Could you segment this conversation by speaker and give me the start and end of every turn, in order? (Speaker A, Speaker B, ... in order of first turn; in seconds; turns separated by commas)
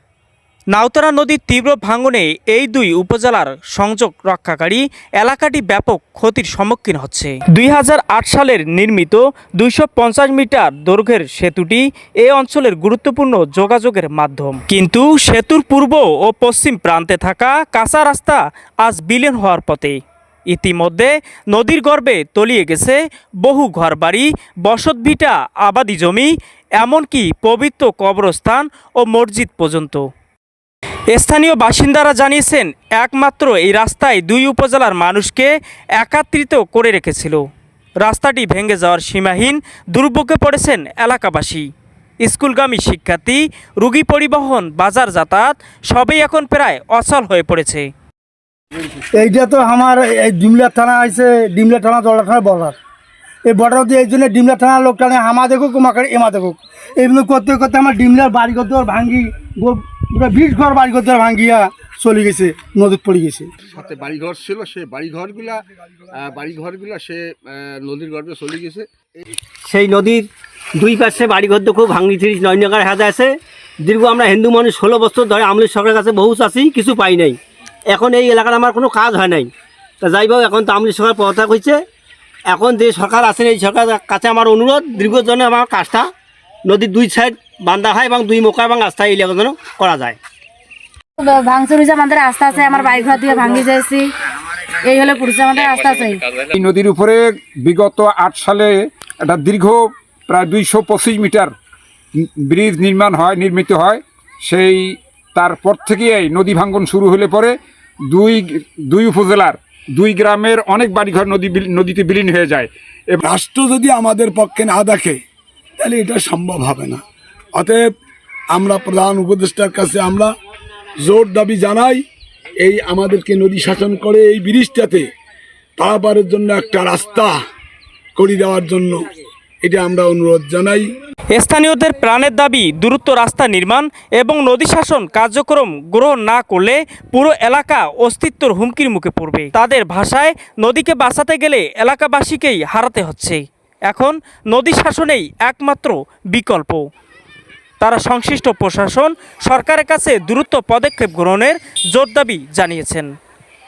Speaker A: 0.7-30.1, Speaker A: 31.1-37.4, Speaker A: 38.0-41.7, Speaker A: 42.2-47.9, Speaker B: 49.1-52.8, Speaker B: 53.5-63.5, Speaker C: 63.7-68.9, Speaker D: 69.7-73.3, Speaker D: 73.8-77.4, Speaker D: 77.9-79.5, Speaker D: 80.0-81.8, Speaker D: 82.5-86.1, Speaker D: 86.7-90.2, Speaker E: 91.2-94.1, Speaker E: 94.7-96.3, Speaker F: 96.3-101.5, Speaker F: 102.5-107.5, Speaker F: 108.1-113.2, Speaker G: 113.2-115.2, Speaker G: 115.8-117.0, Speaker G: 117.6-117.8, Speaker G: 118.5-120.3, Speaker G: 121.0-122.0, Speaker G: 122.6-125.0, Speaker G: 125.8-127.4, Speaker G: 128.2-129.0, Speaker G: 129.6-130.9, Speaker A: 131.3-146.8, Speaker A: 147.8-153.1